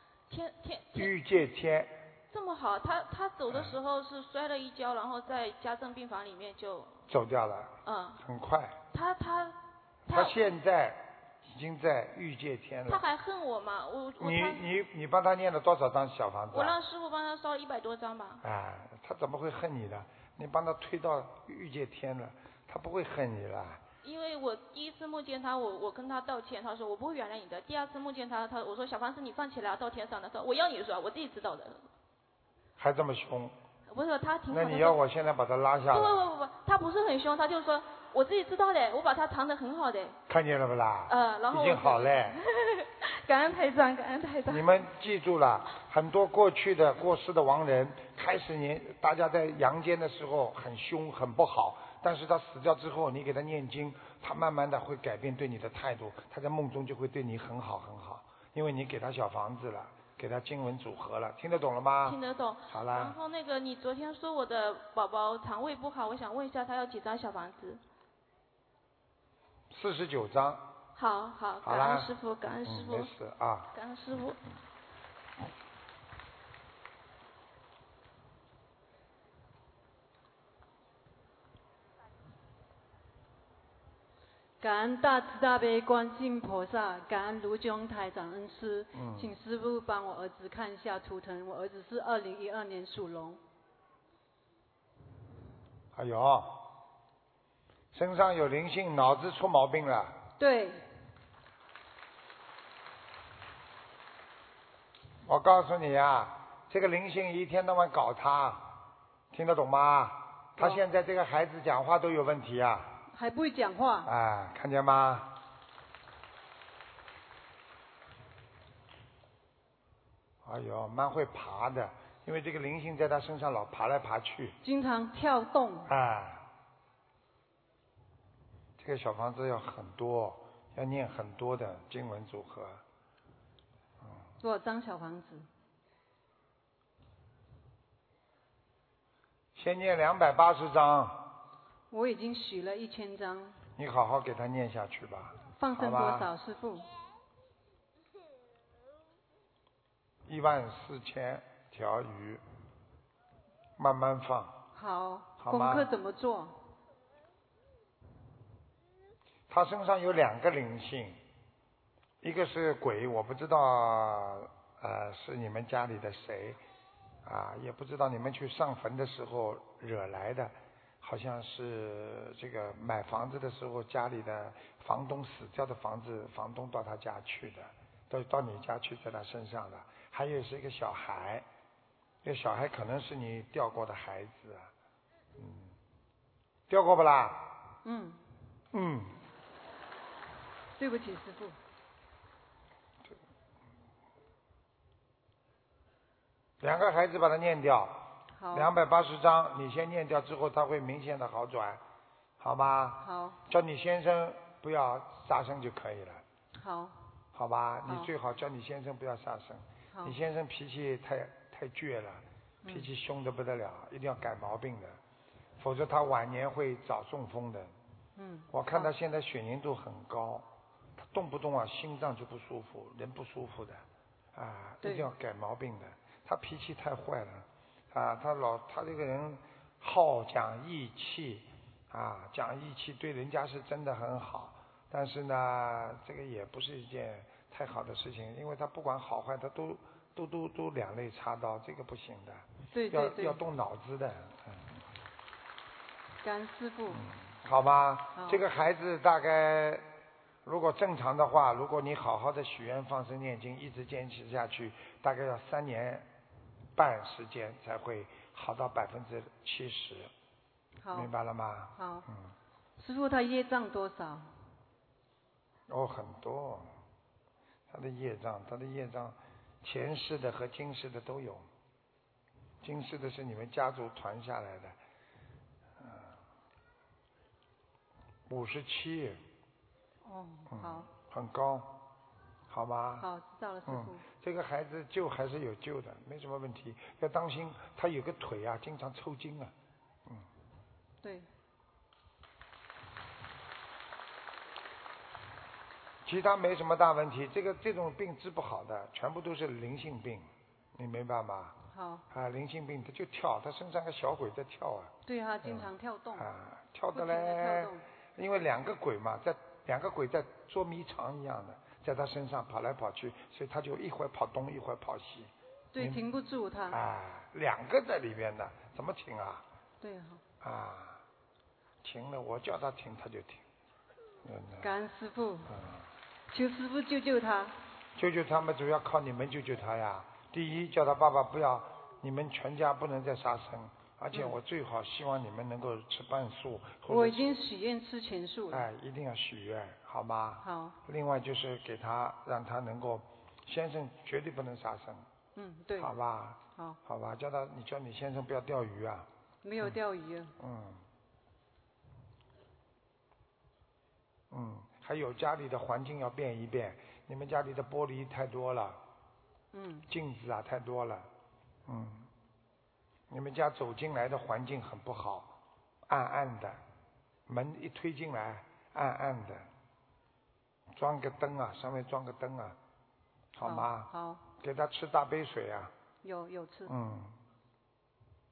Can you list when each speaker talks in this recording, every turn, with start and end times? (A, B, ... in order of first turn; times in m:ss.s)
0:00.3-0:01.2 A
0:00.9-0:02.0 B
0:02.3-0:07.0 A
0:07.1-0:08.8 B
0:07.8-0:08.2 A
0:08.9-0:10.5 A
0:10.1-0:13.0 B
0:12.9-0:14.6 A
0:14.2-0:16.8 B
0:16.5-0:18.4 A
0:18.4-0:23.8 B
0:24.0-0:31.9 A
0:32.8-0:33.6 B
0:33.9-0:35.0 A
0:34.5-0:36.2 B
0:35.9-0:40.2 A
0:40.3-0:42.4 B
0:41.1-0:44.8 A
0:44.4-1:02.2 B
1:02.0-1:07.8 A
1:02.7-1:03.2 B
1:09.7-1:10.7 B
1:11.0-1:13.1 A
1:11.6-1:12.1 B
1:12.6-1:13.7 B
1:13.7-1:14.4 A
1:24.6-1:33.4 C
1:28.9-1:29.3 B
1:35.9-1:36.7 B
1:37.9-1:40.2 B
1:40.4-1:40.9 C
1:45.2-1:48.7 B
1:49.3-1:53.0 B
1:53.1-1:54.1 C
1:54.0-1:55.4 B
2:00.4-2:04.6 B
2:04.6-2:05.9 C
2:05.9-2:06.4 B
2:08.8-2:12.8 B
2:14.4-2:15.5 C
2:19.5-2:21.3 B
2:21.9-2:23.6 C
2:23.8-2:26.3 B
2:25.5-2:26.9 C
2:30.2-2:32.4 B
2:33.8-2:34.6 B
2:34.7-2:36.6 C
2:35.4-2:35.9 B
2:39.5-2:41.2 B
2:42.2-2:46.6 B
2:47.2-3:01.4 B
3:02.2-3:04.7 B
3:05.4-3:05.7 B
3:06.7-3:07.5 B
3:07.8-3:08.2 C
3:08.7-3:09.2 B
3:10.8-3:11.6 C
3:16.6-3:21.8 B
3:18.3-3:18.7 C
3:22.4-3:26.2 B
3:23.0-3:23.4 C
3:26.5-3:27.0 C
3:27.3-3:35.0 B
3:27.8-3:28.1 C
3:29.9-3:30.2 C
3:32.6-3:32.9 C
3:35.6-3:37.7 B
3:38.2-3:38.9 C
3:38.5-3:40.4 B
3:41.0-4:04.8 B
3:44.8-3:45.1 C
4:02.7-4:03.4 C
4:06.2-4:07.0 C
4:06.9-4:09.8 B
4:08.1-4:08.4 C
4:10.4-4:16.1 B
4:16.8-4:20.1 B
4:20.8-4:21.1 C
4:20.9-4:22.3 B
4:21.7-4:22.0 C
4:22.8-4:24.3 C
4:25.7-4:26.7 B
4:27.7-4:31.5 B
4:32.6-4:34.8 B
4:35.8-4:36.1 B
4:38.3-4:39.2 B
4:40.0-4:40.9 C
4:40.5-4:41.8 B
4:42.5-4:43.1 B
4:43.0-4:44.0 C
4:43.6-4:49.5 B
4:51.0-4:51.3 C
4:56.0-5:01.6 B
5:01.7-5:02.0 C
5:02.1-5:04.9 B
5:05.0-5:06.3 C
5:05.4-5:16.0 B
5:06.9-5:07.8 C
5:15.7-5:16.8 C
5:16.7-5:19.4 B
5:19.8-5:20.2 C
5:20.4-5:21.0 B
5:21.8-5:23.4 B
5:24.2-5:24.7 B
5:24.6-5:25.6 C
5:25.5-5:25.8 B
5:26.3-5:27.5 C
5:28.0-5:37.3 B
5:36.9-5:38.7 C
5:38.5-5:45.1 B
5:40.4-5:40.8 C
5:45.3-5:45.9 C
5:45.8-5:49.1 B
5:46.5-5:46.8 C
5:49.4-5:50.3 C
5:50.4-5:50.8 B
5:54.3-5:58.8 B
5:59.5-5:59.9 C
5:59.9-6:01.1 B
6:01.7-6:02.1 B
6:03.1-6:05.4 B
6:05.9-6:06.6 B
6:07.3-6:09.5 B
6:10.7-6:12.6 B
6:13.3-6:15.7 B
6:13.4-6:14.2 C
6:16.0-6:16.7 C
6:16.7-6:17.2 B